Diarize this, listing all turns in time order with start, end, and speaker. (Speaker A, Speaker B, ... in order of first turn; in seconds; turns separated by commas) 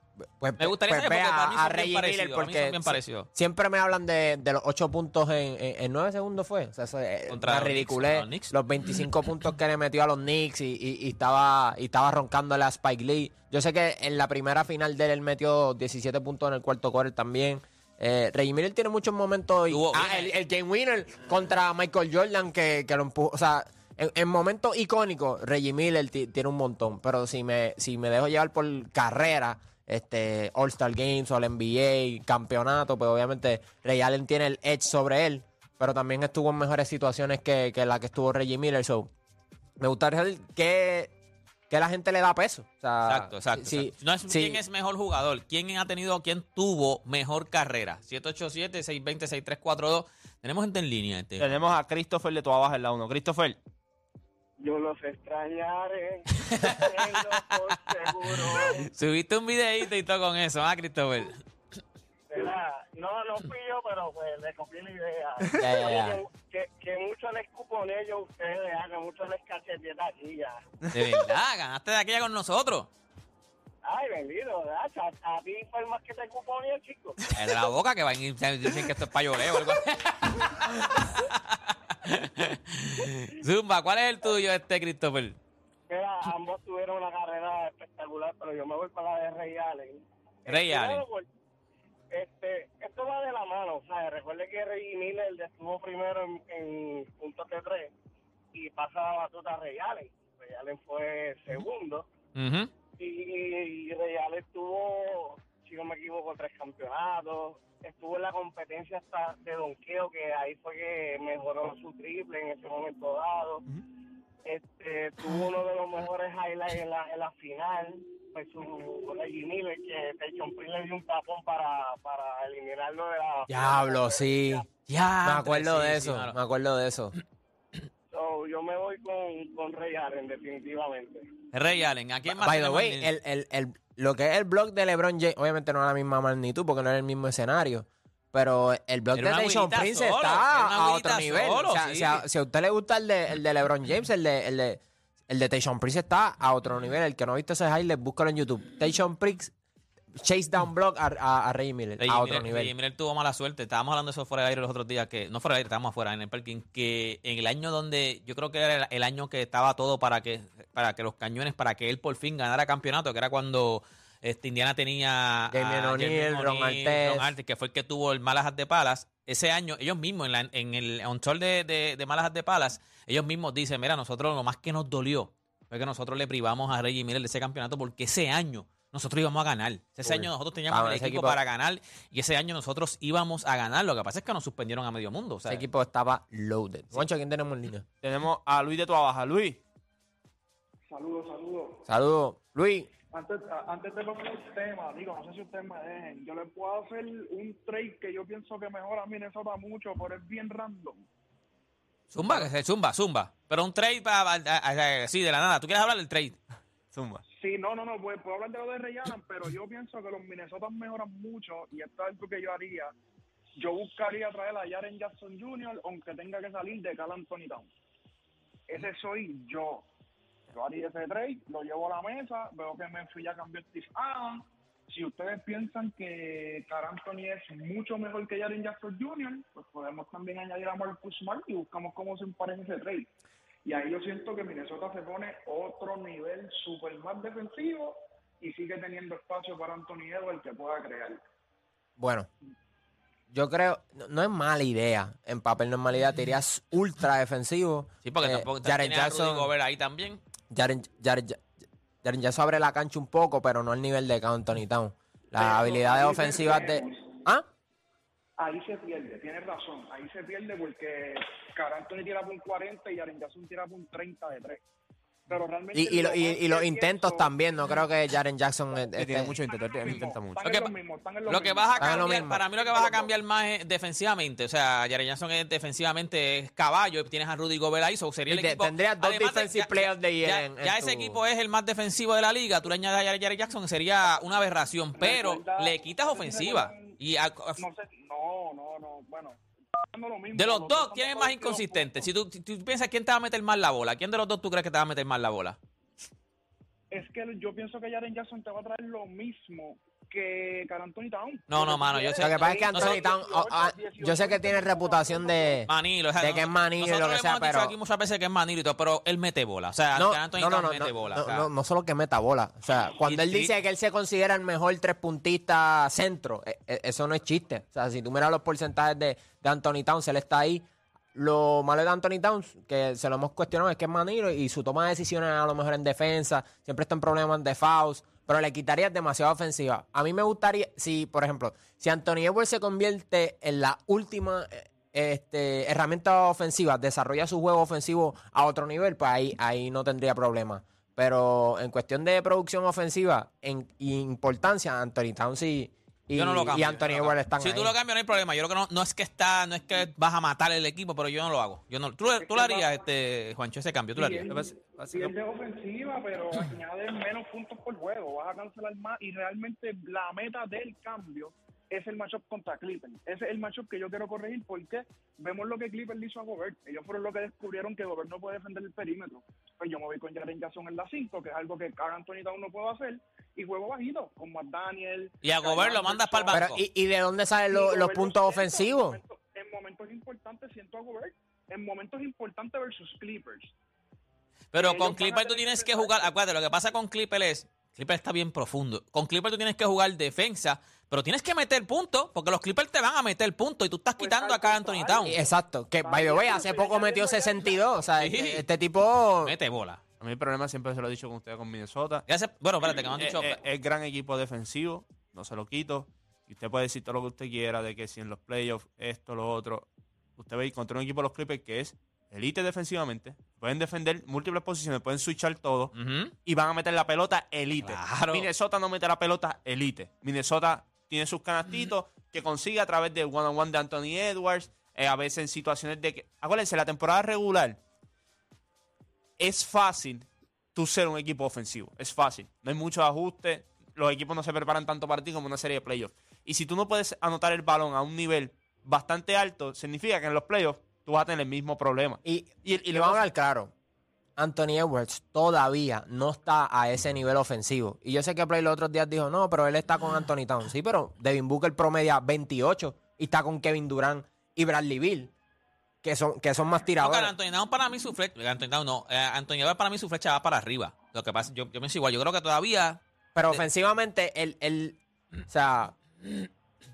Speaker A: 0.4-39.1, Speaker B: 0.6-3.3, Speaker B: 7.3-8.5, Speaker B: 19.7-20.3, Speaker A: 39.8-41.1, Speaker A: 41.7-44.6, Speaker B: 43.1-51.5, Speaker C: 51.4-53.6, Speaker D: 54.6-58.9, Speaker B: 56.4-61.4, Speaker D: 62.3-70.6, Speaker A: 65.6-66.2, Speaker B: 70.9-72.9, Speaker D: 73.8-77.2, Speaker B: 77.3-85.4, Speaker D: 85.9-91.3, Speaker B: 90.5-91.1, Speaker D: 92.1-97.9, Speaker D: 98.5-102.1, Speaker B: 102.4-102.7, Speaker D: 103.0-113.6, Speaker D: 114.5-124.7, Speaker A: 123.5-124.7, Speaker B: 124.9-126.4, Speaker A: 125.2-127.1, Speaker D: 128.1-131.3, Speaker B: 131.5-133.1, Speaker A: 132.3-149.5, Speaker B: 139.2-142.2, Speaker A: 150.2-152.7, Speaker B: 152.0-185.6, Speaker A: 165.5-167.3, Speaker A: 180.1-181.4, Speaker A: 185.5-187.8, Speaker C: 188.0-189.6, Speaker E: 190.9-191.8, Speaker A: 191.9-192.9, Speaker E: 193.1-201.1, Speaker B: 202.1-206.4, Speaker C: 206.9-207.2, Speaker E: 207.3-212.9, Speaker E: 213.6-217.7, Speaker E: 218.7-219.9, Speaker E: 220.5-233.1, Speaker E: 233.7-241.2, Speaker A: 242.0-242.3, Speaker A: 243.3-249.5, Speaker B: 248.1-250.2, Speaker A: 250.5-251.4, Speaker A: 252.0-257.5, Speaker E: 255.4-257.2, Speaker E: 258.4-264.6, Speaker E: 265.3-267.3, Speaker A: 265.7-269.4, Speaker C: 269.0-270.7, Speaker E: 269.4-273.1, Speaker B: 271.3-287.6, Speaker A: 271.8-272.4, Speaker A: 278.3-281.2, Speaker E: 285.0-287.0, Speaker E: 287.6-289.4, Speaker E: 289.9-292.1, Speaker B: 290.3-295.6, Speaker E: 296.9-305.6, Speaker B: 301.5-303.0, Speaker A: 302.2-307.7, Speaker B: 305.7-311.5, Speaker A: 309.9-347.8, Speaker B: 313.0-313.5, Speaker B: 346.1-354.3, Speaker E: 352.2-352.8, Speaker E: 353.9-376.4, Speaker C: 354.3-355.2, Speaker B: 375.2-376.6, Speaker A: 376.3-379.0, Speaker E: 377.5-383.5, Speaker B: 384.5-395.2, Speaker E: 384.6-386.2, Speaker E: 394.0-397.8, Speaker A: 395.1-399.3, Speaker B: 398.0-398.4, Speaker B: 399.2-399.8, Speaker C: 400.0-402.1, Speaker B: 402.1-403.4, Speaker C: 402.7-415.7, Speaker B: 415.7-416.1, Speaker C: 416.2-427.6, Speaker B: 417.6-418.3, Speaker C: 429.2-443.0, Speaker A: 442.1-443.5, Speaker A: 444.2-455.1, Speaker A: 455.8-457.1, Speaker B: 456.8-463.4, Speaker A: 463.1-465.8